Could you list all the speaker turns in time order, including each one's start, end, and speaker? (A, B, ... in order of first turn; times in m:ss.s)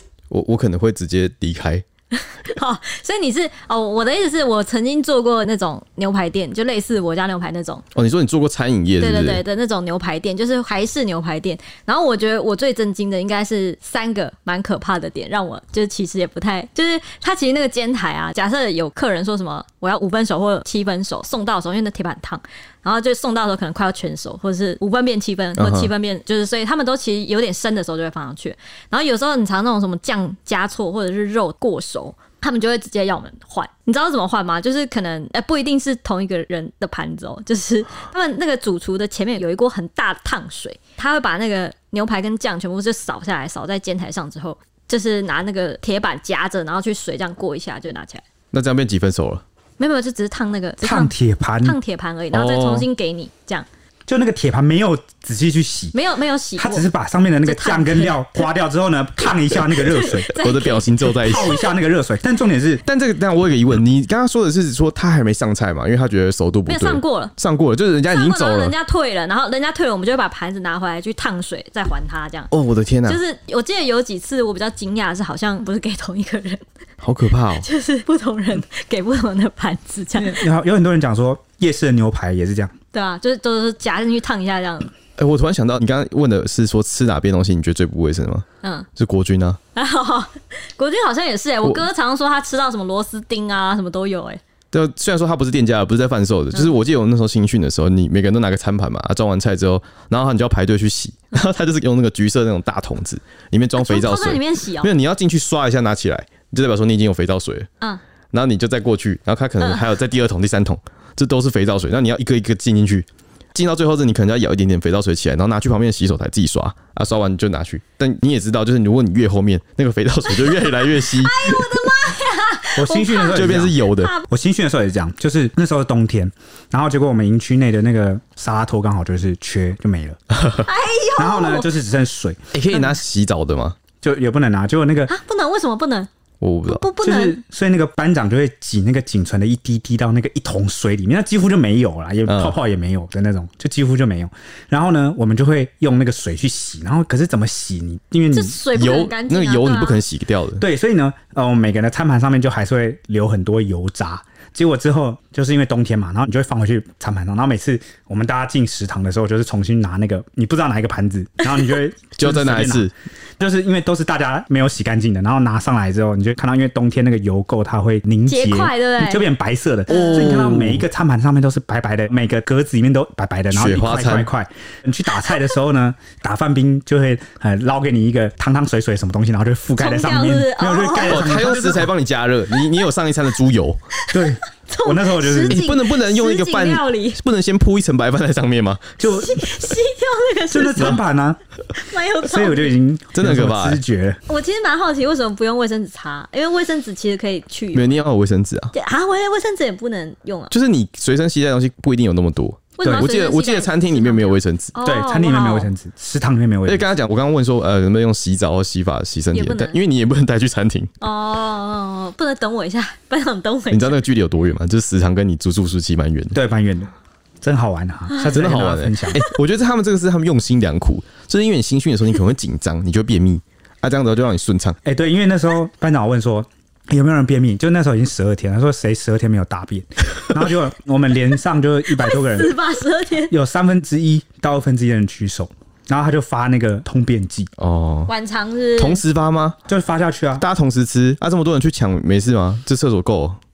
0:00.3-0:01.8 A
0:02.2-0:07.8 B
0:08.0-0:09.4 A
0:09.0-0:48.2 B
0:25.6-0:25.9 A
0:48.5-0:49.4 A
0:49.8-0:53.7 B
0:50.8-0:51.8 C
0:52.3-0:52.9 A
0:54.1-0:56.0 C
0:55.9-0:56.9 B
0:56.6-1:00.3 C
0:57.4-0:58.4 B
0:59.8-1:01.6 B
1:00.3-1:01.6 A
1:01.2-1:02.8 C
1:02.9-1:08.7 A
1:06.7-1:07.3 B
1:08.1-1:12.5 B
1:12.5-1:13.2 A
1:13.1-1:16.6 B
1:17.0-1:17.7 A
1:17.6-1:20.4 B
1:20.2-1:22.7 C
1:22.9-1:24.9 B
1:25.2-1:28.4 A
1:29.0-1:29.6 A
1:29.8-1:34.4 B
1:34.7-1:47.7 A
1:43.8-1:44.9 B
1:48.3-2:01.9 A
2:00.3-2:04.3 B
2:02.8-2:10.2 C
2:03.3-2:04.1 A
2:10.3-2:10.6 A
2:10.6-2:11.7 B
2:11.2-2:12.5 C
2:12.5-2:13.8 A
2:14.0-2:15.1 C
2:15.1-2:16.1 B
2:16.4-2:16.8 A
2:16.6-2:17.4 B
2:17.0-2:28.6 C
2:22.3-2:22.6 A
2:28.3-2:30.0 B
2:28.7-2:30.6 A
2:30.6-2:42.9 C
2:42.2-2:42.9 A
2:43.4-3:01.9 C
2:48.3-2:49.2 B
2:49.9-2:50.4 B
2:49.9-2:50.8 A
2:53.5-2:54.3 A
2:59.8-3:01.4 B
3:01.0-3:03.8 A
3:04.0-3:07.2 B
3:04.1-3:05.6 C
3:05.5-3:09.0 A
3:09.0-3:09.4 C
3:09.1-3:11.0 B
3:10.5-3:11.4 C
3:11.8-3:12.7 B
3:12.2-3:14.2 C
3:13.1-3:13.8 A
3:14.3-3:18.0 B
3:17.7-3:18.7 A
3:18.7-3:20.5 B
3:20.5-3:24.8 A
3:22.8-3:25.7 B
3:24.8-3:26.9 C
3:26.7-3:30.9 A
3:29.3-3:29.8 B
3:31.0-3:34.0 B
3:33.7-3:36.4 A
3:36.3-3:39.2 C
3:38.2-3:44.8 A
3:44.8-3:52.5 C
3:51.9-3:53.3 B
3:53.3-3:57.5 C
3:57.6-3:58.1 A
3:58.1-3:59.0 B
3:58.8-3:59.6 A
3:59.7-4:00.4 C
4:00.4-4:03.4 A